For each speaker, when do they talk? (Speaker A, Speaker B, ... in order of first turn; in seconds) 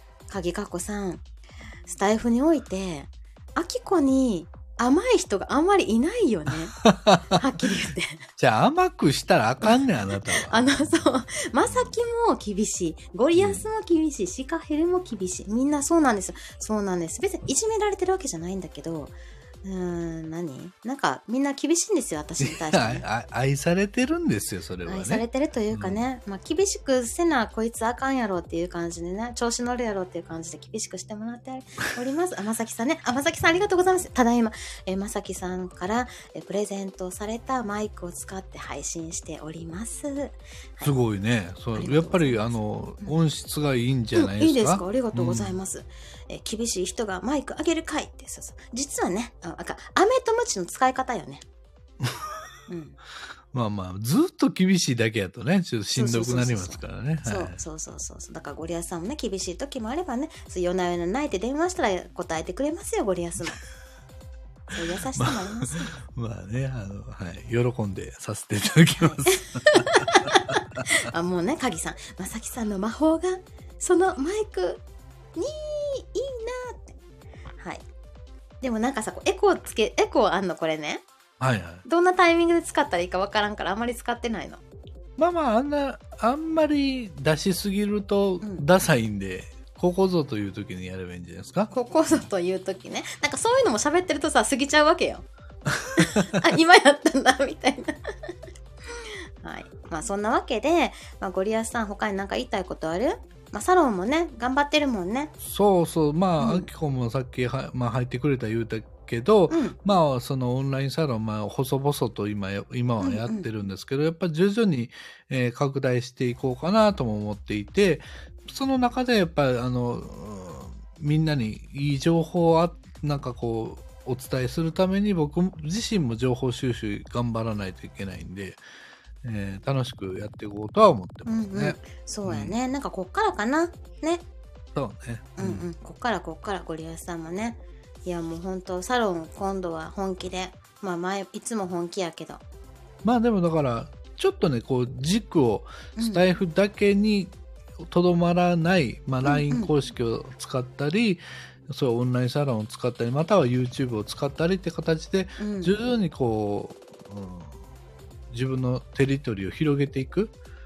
Speaker A: 0.3-1.2, 1.9-6.8, 7.3-8.2, 9.6-23.0, 24.9-40.9, 41.7-43.2, 44.1-51.4, 52.7-53.0, 55.9-63.6, 64.7-65.9, 69.0-74.8, 75.3-77.0, 77.6-77.8, 78.6-81.0, 81.8-84.6, 91.7-95.2, 95.9-98.0, 99.0-105.3, 106.4-106.7, 109.5-109.8, 113.0-113.5, 131.2-134.2, 135.4-142.4, 145.9-146.2, 149.2-149.7, 155.4-155.7
Speaker B: 6.8-7.4, 8.4-10.6, 13.3-13.6, 22.4-26.0, 40.8-45.6, 52.0-52.4, 53.5-57.6, 65.2-70.6, 81.4-81.8, 85.2-92.2, 95.7-96.3, 105.4-128.6, 129.2-132.6, 134.7-135.7, 143.0-157.6, 158.3-160.3